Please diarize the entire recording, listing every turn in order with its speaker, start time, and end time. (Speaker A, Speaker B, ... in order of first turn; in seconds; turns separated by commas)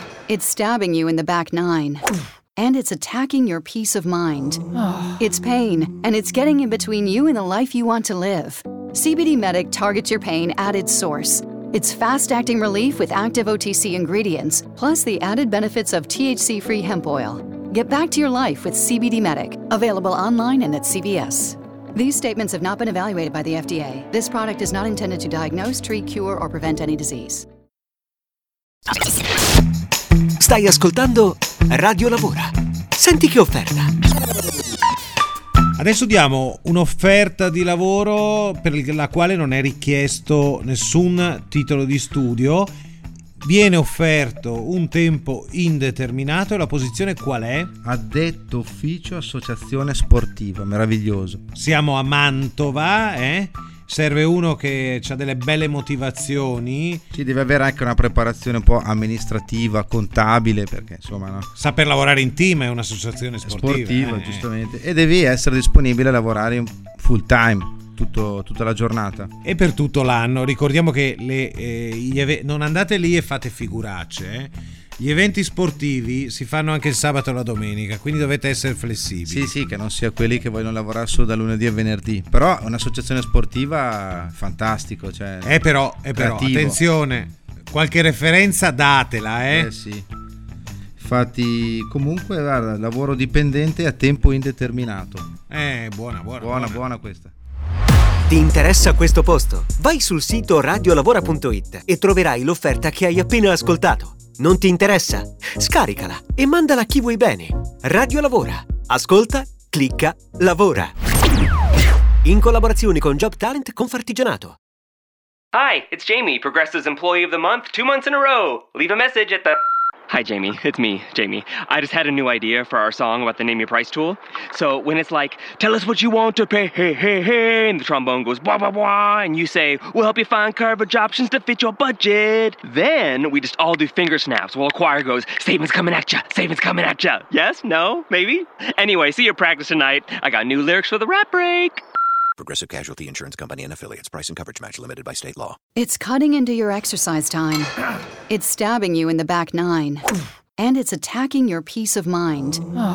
Speaker A: 0.3-4.6, Speaker A: 5.2-27.4, Speaker B: 30.4-33.9, Speaker C: 35.8-42.7, Speaker C: 43.4-47.7, Speaker D: 47.8-51.4, Speaker C: 51.5-57.0, Speaker D: 57.1-61.5, Speaker C: 61.5-64.4, Speaker D: 63.5-69.3, Speaker C: 69.4-79.5, Speaker D: 79.2-86.8, Speaker C: 85.4-89.7, Speaker D: 89.5-90.1, Speaker D: 91.0-95.3, Speaker C: 95.5-96.8, Speaker D: 96.4-97.3, Speaker B: 98.3-110.9, Speaker B: 112.2-114.5, Speaker E: 115.5-141.8, Speaker F: 142.4-145.6, Speaker A: 145.8-147.7, Speaker A: 148.3-150.1, Speaker A: 150.6-152.6